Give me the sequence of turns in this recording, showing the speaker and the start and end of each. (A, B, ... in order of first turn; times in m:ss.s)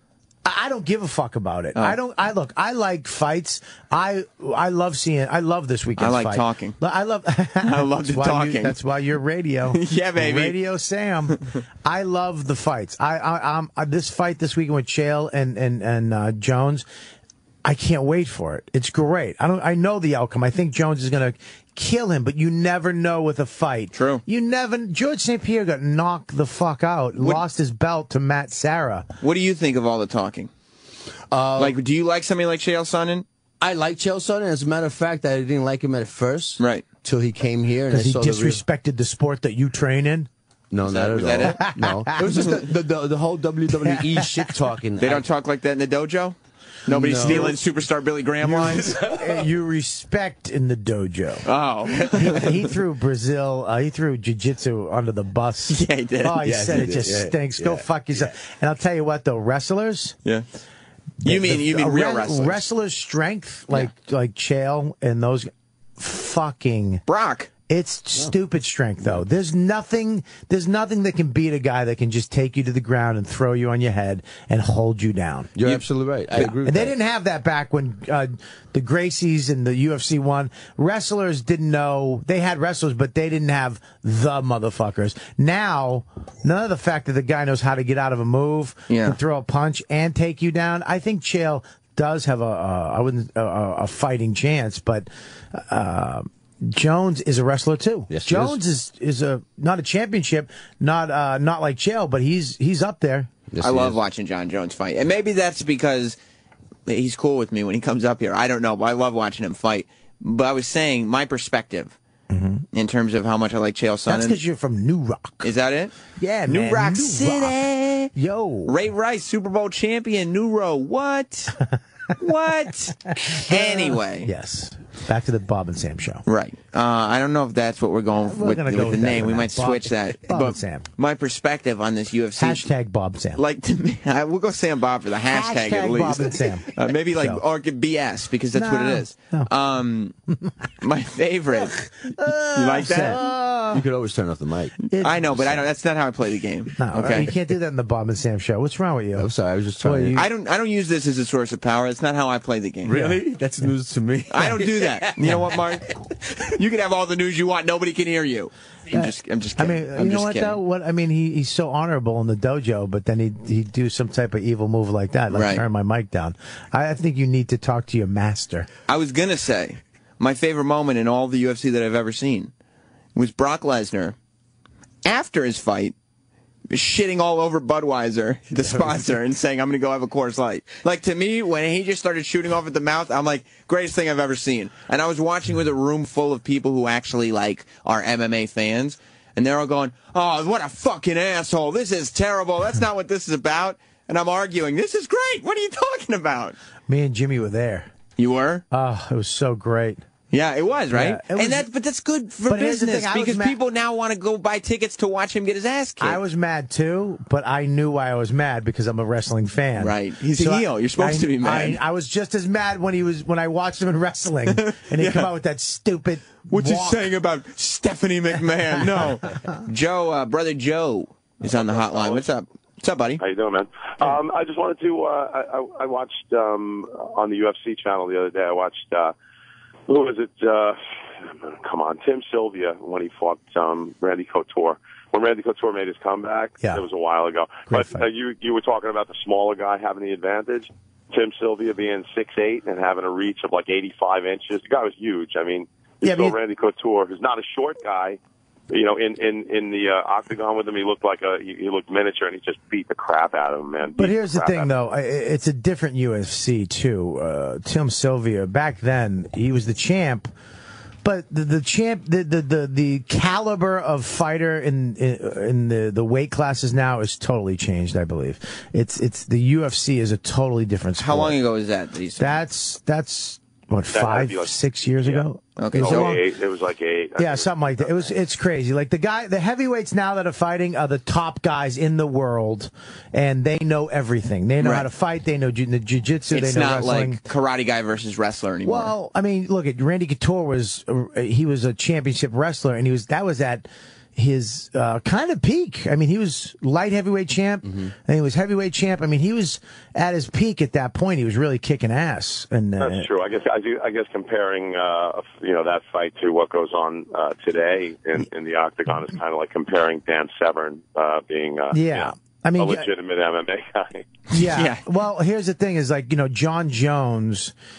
0:00.4-0:16.8 A
0:06.0-0:06.8 B
0:07.6-0:08.8 B
0:09.7-0:10.6 B
0:17.6-0:29.1 A
0:23.9-0:24.2 B
0:27.2-0:27.4 B
0:29.2-0:30.5 B
0:31.3-0:31.8 C
0:31.6-0:33.2 B
0:33.6-0:38.6 C
0:36.6-0:36.8 B
0:37.9-0:40.3 A
0:40.7-0:45.2 C
0:40.8-0:41.6 B
0:41.7-0:42.5 A
0:43.8-0:44.5 A
0:45.0-0:49.0 B
0:46.9-0:47.6 C
0:47.2-0:47.6 A
0:48.4-0:51.4 A
0:49.0-0:49.4 C
0:51.4-0:52.7 B
0:52.1-1:00.1 A
0:55.7-0:56.5 B
0:56.4-0:58.3 C
1:01.2-1:07.0 A
1:01.2-1:02.6 B
1:07.1-1:07.5 B
1:07.7-1:15.5 A
1:15.6-1:17.0 C
1:16.4-1:43.3 A
1:28.9-1:29.2 B
1:38.1-1:38.6 C
1:43.5-1:44.0 C
1:43.6-1:46.2 B
1:46.9-1:52.0 B
1:52.3-1:52.6 A
1:52.7-1:54.4 B
1:54.1-1:55.5 A
1:55.4-1:56.0 B
1:56.2-1:57.6 A
1:56.5-1:58.1 B
1:58.1-1:58.8 A
1:58.7-2:01.5 B
2:02.2-2:04.3 B
2:03.3-2:06.2 A
2:06.2-2:12.7 B
2:08.3-2:10.8 A
2:12.4-2:13.4 A
2:13.4-2:20.1 B
2:15.3-2:17.4 A
2:18.5-2:19.5 A
2:20.8-2:21.9 B
2:22.1-2:23.8 A
2:22.4-2:23.2 B
2:22.8-2:24.8 C
2:24.9-2:25.6 A
2:25.0-2:27.3 B
2:26.8-2:29.3 A
2:29.2-2:30.2 C
2:29.8-2:30.2 A
2:30.1-2:32.9 B
2:32.8-2:35.8 C
2:32.9-2:33.2 A
2:34.3-2:40.6 B
2:38.9-2:48.7 A
2:45.3-2:45.6 B
2:48.9-2:52.5 B
2:53.1-2:54.1 B
2:55.0-2:55.9 B
2:56.7-3:16.6 B
3:16.9-3:17.9 A
3:18.2-3:18.6 B
3:18.7-3:20.0 A
3:20.3-3:26.2 B
3:20.9-3:21.7 A
3:22.5-3:23.6 A
3:26.0-3:37.1 A
3:29.8-3:31.8 B
3:34.5-3:35.3 B
3:36.5-3:43.2 B
3:41.5-3:42.2 D
3:43.2-3:49.1 D
3:49.9-4:08.2 D
3:57.7-3:58.0 A
4:06.0-4:06.4 A
4:08.7-4:14.7 D
4:14.0-4:20.3 A
4:21.0-4:31.4 A
4:31.0-4:32.4 B
4:32.2-4:36.2 A
4:33.9-4:38.1 D
4:35.6-4:36.2 B
4:37.2-4:47.2 A
4:44.6-4:44.9 B
4:46.3-4:48.9 B
4:48.6-5:03.1 A
4:57.6-4:57.9 C
5:02.8-5:14.1 D
5:11.7-5:12.9 A
5:14.3-5:17.5 A
5:14.4-5:14.8 B